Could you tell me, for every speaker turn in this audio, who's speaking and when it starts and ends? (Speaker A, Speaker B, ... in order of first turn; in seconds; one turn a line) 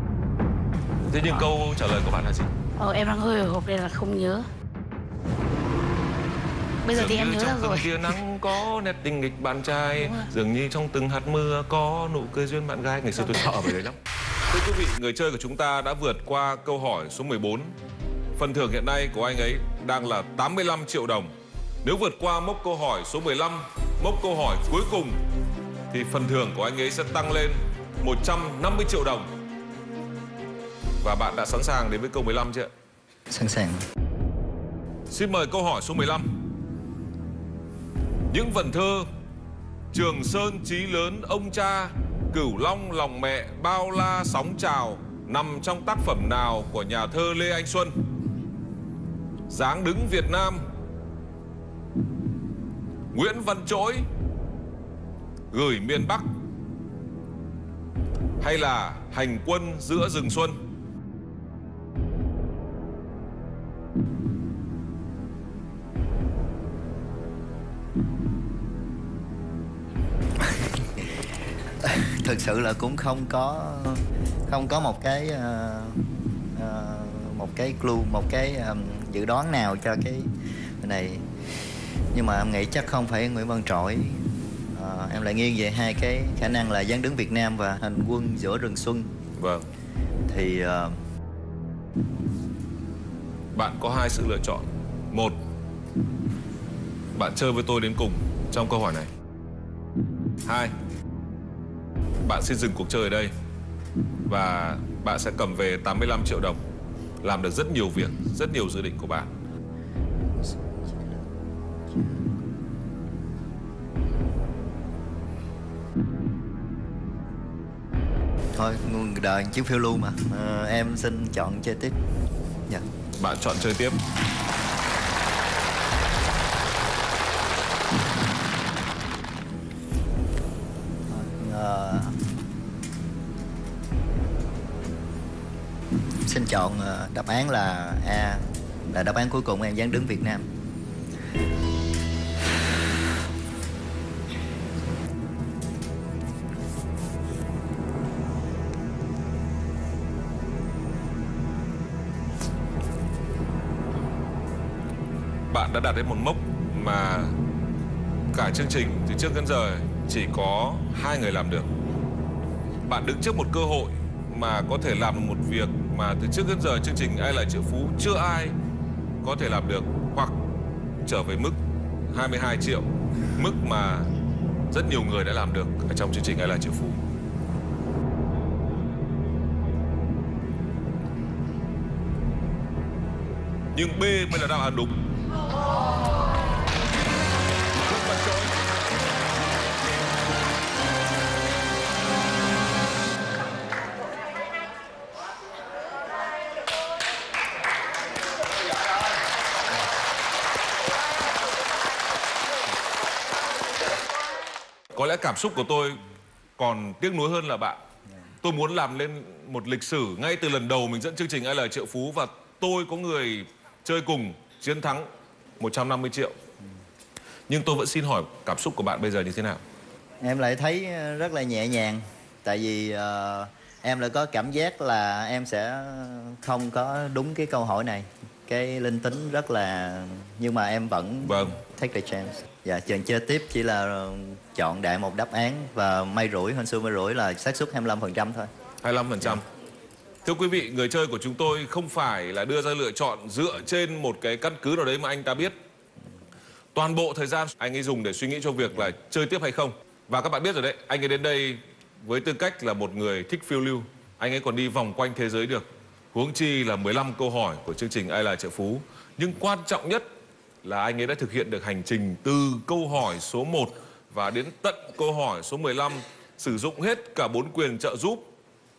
Speaker A: 1.1-2.5
Speaker B: 2.8-4.5
Speaker B: 6.8-8.2
Speaker A: 6.9-14.0
Speaker B: 10.0-10.3
Speaker A: 14.5-17.8
Speaker A: 18.4-21.3
Speaker A: 21.8-25.2
Speaker A: 25.9-29.3
Speaker A: 31.0-32.7
Speaker C: 33.3-33.8
Speaker A: 35.1-36.3
Speaker A: 38.3-39.1
Speaker A: 39.9-47.9
Speaker A: 49.5-50.7
Speaker A: 53.1-54.1
Speaker A: 55.5-56.3
Speaker A: 58.4-60.6
Speaker C: 70.4-71.1
Speaker C: 71.8-81.3
Speaker C: 82.1-89.1
Speaker A: 89.4-89.7
Speaker C: 90.3-91.0
Speaker A: 93.5-95.4
Speaker A: 97.1-99.1
Speaker A: 100.5-100.7
Speaker A: 102.2-103.3
Speaker A: 104.3-106.6
Speaker A: 107.2-109.3
Speaker C: 110.3-111.3
Speaker C: 111.9-112.3
Speaker C: 118.6-122.0
Speaker A: 123.2-124.0
Speaker C: 131.1-132.2
Speaker C: 136.2-140.5
Speaker A: 155.5-157.3
Speaker A: 158.3-161.7
Speaker A: 162.9-168.6
Speaker A: 169.2-170.4
Speaker A: 171.1-171.6
Speaker A: 172.1-174.1
Speaker A: 174.7-177.0
Speaker A: 183.7-185.0
Speaker A: 187.9-188.5
Speaker A: 204.9-206.0
Speaker A: 206.6-207.8
Speaker A: 208.4-215.1
Speaker A: 215.6-216.3
Speaker A: 217.5-219.6
Speaker C: 220.2-238.5
Speaker A: 231.2-231.6
Speaker A: 238.8-239.4
Speaker A: 240.2-245.6
Speaker A: 246.7-260.1
Speaker A: 260.6-268.3